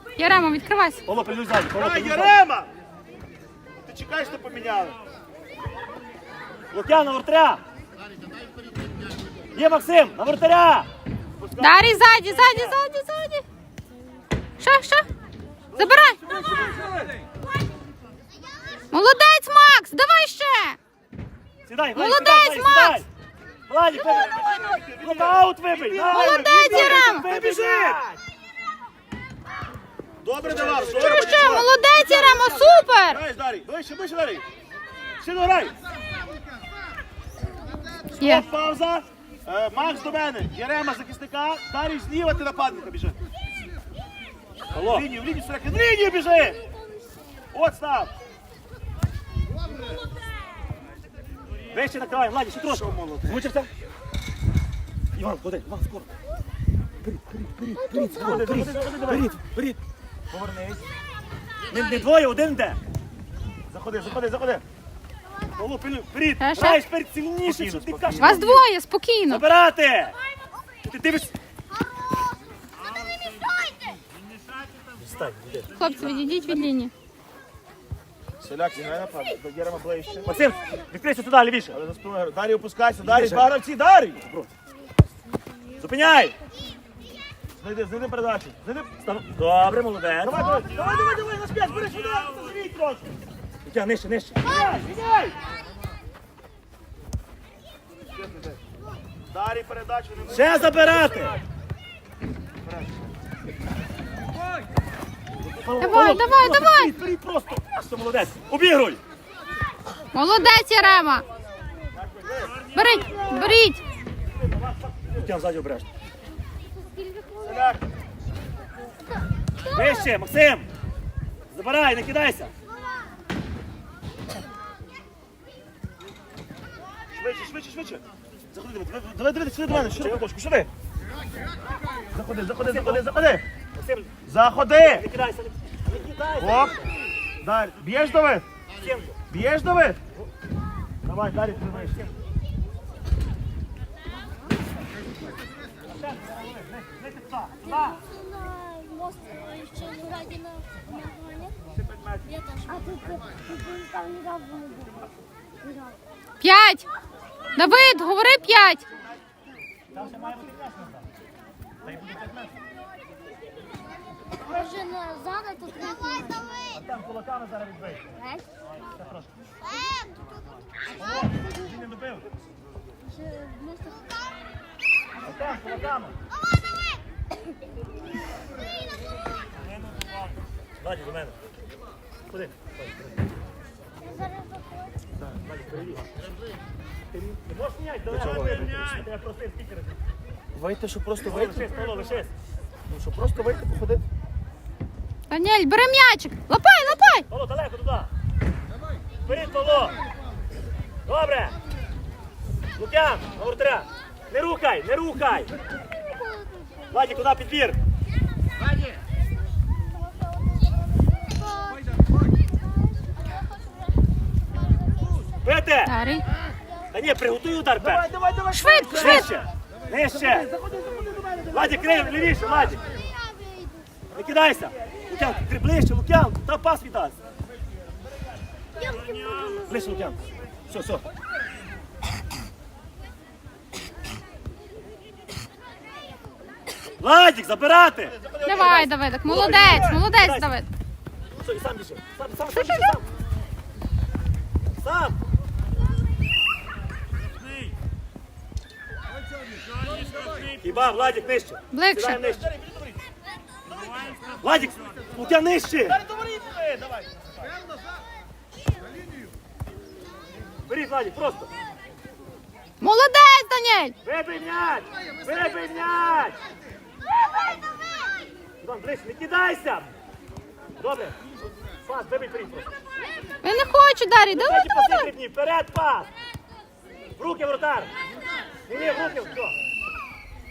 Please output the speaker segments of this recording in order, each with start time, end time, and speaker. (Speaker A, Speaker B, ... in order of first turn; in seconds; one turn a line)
Speaker A: 0.2-1.0
Speaker B: 1.1-2.4
Speaker C: 1.8-2.7
Speaker C: 3.8-5.0
Speaker B: 6.7-7.6
Speaker B: 9.6-10.9
Speaker C: 11.4-12.7
Speaker A: 11.6-13.4
Speaker A: 14.6-15.1
Speaker B: 15.8-16.0
Speaker A: 15.8-16.2
Speaker C: 16.2-17.0
Speaker A: 18.9-20.8
Speaker B: 21.7-23.1
Speaker A: 21.9-23.1
Speaker B: 23.7-28.2
Speaker C: 24.0-28.0
Speaker A: 26.1-27.3
Speaker C: 30.2-31.7
Speaker B: 30.5-32.8
Speaker A: 30.8-33.2
Speaker C: 33.1-34.5
Speaker C: 35.2-35.7
Speaker C: 38.2-43.2
Speaker A: 38.2-38.5
Speaker B: 44.7-45.1
Speaker C: 44.9-46.6
Speaker C: 47.5-48.1
Speaker B: 51.7-53.7
Speaker C: 52.7-53.4
Speaker B: 55.2-56.1
Speaker B: 57.0-59.8
Speaker C: 58.2-59.4
Speaker C: 60.3-60.9
Speaker B: 61.7-62.8
Speaker C: 63.7-64.6
Speaker B: 65.6-68.6
Speaker A: 66.4-66.8
Speaker C: 67.5-68.5
Speaker A: 68.2-69.4
Speaker B: 69.3-70.2
Speaker B: 70.8-71.3
Speaker B: 75.0-75.7
Speaker A: 75.8-76.9
Speaker C: 78.4-80.4
Speaker B: 80.3-81.8
Speaker C: 81.7-84.2
Speaker B: 83.0-83.5
Speaker B: 85.8-86.4
Speaker C: 87.6-88.9
Speaker B: 89.0-90.6
Speaker C: 90.2-93.1
Speaker B: 93.7-94.9
Speaker C: 94.5-95.3
Speaker C: 98.2-98.6
Speaker C: 99.3-101.4
Speaker B: 100.3-101.4
Speaker C: 102.6-103.0
Speaker B: 105.5-109.0
Speaker A: 105.8-106.9
Speaker A: 110.1-111.3
Speaker C: 112.0-112.5
Speaker A: 112.7-113.8
Speaker B: 113.0-113.6
Speaker C: 113.1-113.5
Speaker C: 114.5-115.3
Speaker B: 115.2-115.9
Speaker D: 116.8-117.6
Speaker C: 117.4-117.8
Speaker B: 119.7-120.7
Speaker B: 121.5-122.5
Speaker C: 127.1-130.7
Speaker B: 129.7-130.3
Speaker C: 132.1-133.4
Speaker B: 132.6-133.1
Speaker B: 133.8-134.1
Speaker C: 134.2-135.1
Speaker B: 134.7-136.9
Speaker C: 136.4-136.8
Speaker C: 137.4-138.5
Speaker B: 138.8-139.2
Speaker C: 139.3-140.0
Speaker C: 141.1-142.0
Speaker B: 141.6-142.1
Speaker B: 145.9-148.0
Speaker D: 147.9-151.5
Speaker C: 152.0-152.2
Speaker D: 152.7-154.9
Speaker A: 156.4-156.8
Speaker A: 157.6-158.8
Speaker B: 159.9-161.1
Speaker B: 161.8-162.5
Speaker D: 164.5-166.7
Speaker B: 166.7-168.0
Speaker B: 168.7-169.3
Speaker B: 171.0-172.2
Speaker D: 173.1-174.1
Speaker B: 175.2-176.2
Speaker B: 180.8-181.4
Speaker B: 182.3-183.2
Speaker D: 184.1-184.8
Speaker B: 185.4-186.1
Speaker B: 187.1-190.0
Speaker C: 188.1-189.0
Speaker C: 190.5-191.8
Speaker B: 191.2-192.3
Speaker C: 192.9-194.0
Speaker A: 195.3-197.3
Speaker B: 197.3-198.1
Speaker B: 199.3-200.0
Speaker B: 201.1-201.6
Speaker B: 202.8-205.5
Speaker D: 206.2-206.7
Speaker B: 206.9-207.8
Speaker D: 211.0-211.8
Speaker B: 215.4-215.9
Speaker A: 215.8-216.3
Speaker B: 216.9-218.0
Speaker C: 217.8-219.4
Speaker A: 218.5-219.4
Speaker B: 218.9-220.5
Speaker C: 220.1-222.8
Speaker B: 221.5-222.8
Speaker D: 223.2-223.9
Speaker B: 224.1-227.2
Speaker D: 228.9-229.7
Speaker B: 229.6-231.0
Speaker B: 237.0-240.5
Speaker C: 238.2-239.7
Speaker A: 238.4-240.7
Speaker B: 241.4-243.1
Speaker A: 242.7-242.9
Speaker B: 244.8-245.2
Speaker B: 250.6-252.5
Speaker A: 251.7-252.2
Speaker C: 252.2-253.0
Speaker B: 254.4-256.0
Speaker C: 255.8-257.5
Speaker B: 260.6-261.5
Speaker A: 262.8-263.9
Speaker B: 264.0-266.4
Speaker B: 268.6-269.9
Speaker B: 270.8-271.2
Speaker B: 271.9-272.7
Speaker A: 273.4-275.1
Speaker B: 274.3-276.1
Speaker B: 277.2-277.9
Speaker B: 278.7-279.6